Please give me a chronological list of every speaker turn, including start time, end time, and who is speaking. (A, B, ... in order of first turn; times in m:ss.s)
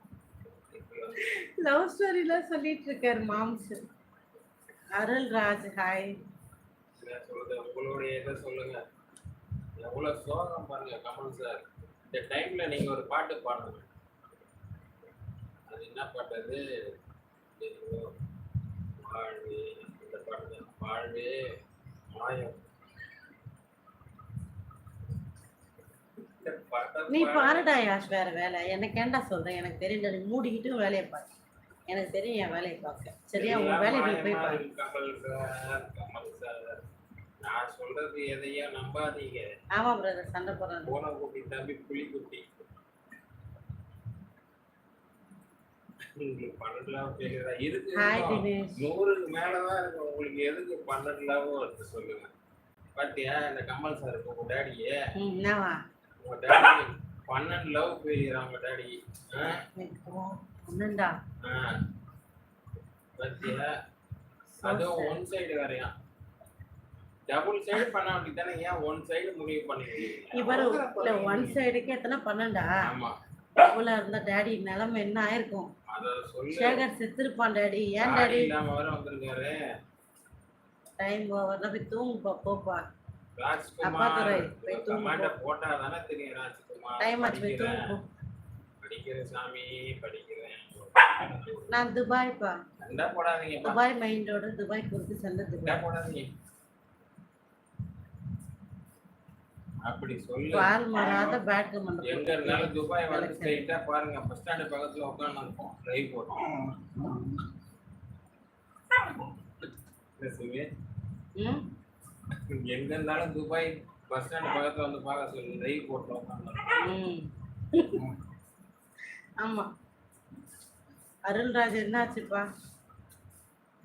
0:00.7-0:01.3 A
0:01.2-0:03.8 B
0:05.0-0:06.1 B
0:07.0-0:08.8 A
0:09.8-0:13.9 A
0:15.7-0:16.6 A
0:17.6-0:18.1 A
0:19.0-0:21.3 A
0:22.1-0:22.6 A
0:26.4-0:27.7 A
0:27.1-0:31.3 B
0:31.9-0:34.6 B
0:33.4-0:36.8 A
0:37.4-0:39.5 A
0:39.8-0:40.9 B
0:40.9-0:42.5 A
0:46.2-0:52.3 A
0:48.0-0:48.8 B
0:53.0-0:55.0 A
0:55.2-0:55.8 B
0:56.2-0:59.6 A
0:59.8-1:01.2 B
1:01.4-1:01.7 A
1:03.2-1:03.7 A
1:04.6-1:05.9 A
1:04.6-1:05.2 B
1:07.3-1:11.6 A
1:10.4-1:12.8 B
1:12.8-1:13.2 A
1:13.6-1:15.7 B
1:15.9-1:16.9 A
1:16.5-1:18.5 B
1:18.0-1:19.6 A
1:21.0-1:22.8 B
1:23.4-1:27.9 A
1:23.8-1:25.3 B
1:27.0-1:28.0 B
1:28.8-1:31.9 A
1:31.7-1:32.6 B
1:32.8-1:33.8 A
1:33.6-1:35.8 B
1:35.6-1:36.3 A
1:39.8-1:41.4 A
1:40.5-1:43.7 B
1:42.0-1:47.3 A
1:49.0-1:49.7 A
1:50.2-1:50.7 A
1:51.4-1:51.6 B
1:52.5-1:56.9 A
1:56.8-1:58.1 B
1:59.4-1:59.7 B
2:01.3-2:02.5 B